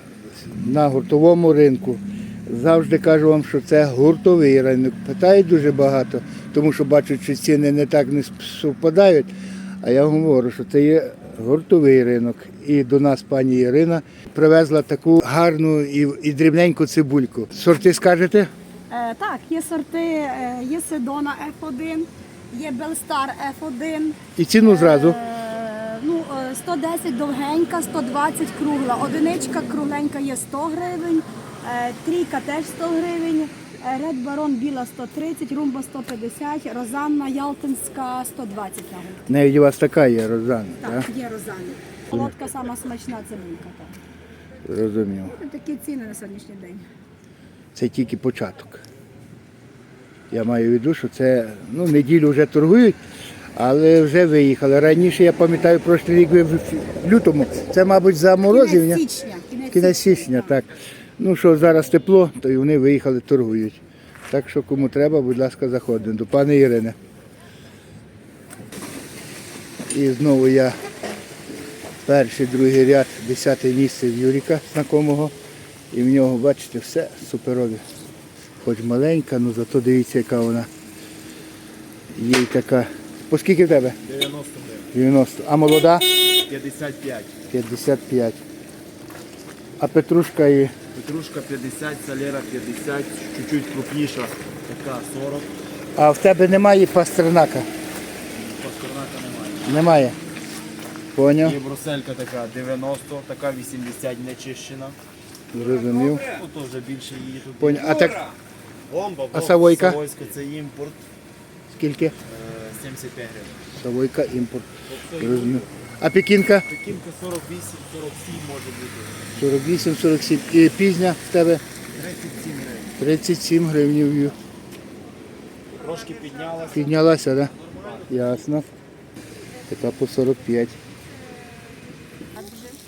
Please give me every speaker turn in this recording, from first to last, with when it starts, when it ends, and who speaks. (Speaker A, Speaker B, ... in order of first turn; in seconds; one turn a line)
Speaker A: 0.5-18.5
Speaker B: 18.9-39.2
Speaker A: 24.3-25.2
Speaker A: 39.3-41.1
Speaker B: 40.8-44.0
Speaker A: 44.6-45.4
Speaker B: 45.3-46.9
Speaker A: 47.7-48.8
Speaker A: 50.3-53.0
Speaker A: 53.5-59.0
Speaker B: 58.4-60.5
Speaker A: 59.7-67.0
Speaker A: 69.9-70.8
Speaker A: 72.0-75.3
Speaker A: 75.9-77.8
Speaker A: 78.6-80.7
Speaker A: 82.1-84.0
Speaker C: 84.0-84.9
Speaker A: 84.9-86.2
Speaker C: 86.4-87.4
Speaker A: 87.5-88.4
Speaker A: 89.8-90.7
Speaker C: 90.9-95.5
Speaker A: 96.0-97.7
Speaker C: 98.5-99.7
Speaker A: 99.6-100.2
Speaker A: 101.1-101.6
Speaker C: 101.4-105.0
Speaker A: 105.5-106.3
Speaker C: 106.1-108.4
Speaker A: 107.6-108.2
Speaker C: 108.9-111.0
Speaker A: 109.3-110.0
Speaker A: 111.7-112.1
Speaker C: 112.2-113.6
Speaker A: 113.7-116.7
Speaker C: 114.9-115.7
Speaker C: 116.7-119.2
Speaker A: 119.3-121.6
Speaker C: 121.9-123.0
Speaker A: 123.0-124.4
Speaker C: 125.7-127.0
Speaker A: 126.7-127.5
Speaker C: 127.7-128.0
Speaker A: 128.1-128.7
Speaker A: 129.7-130.8
Speaker B: 132.4-132.8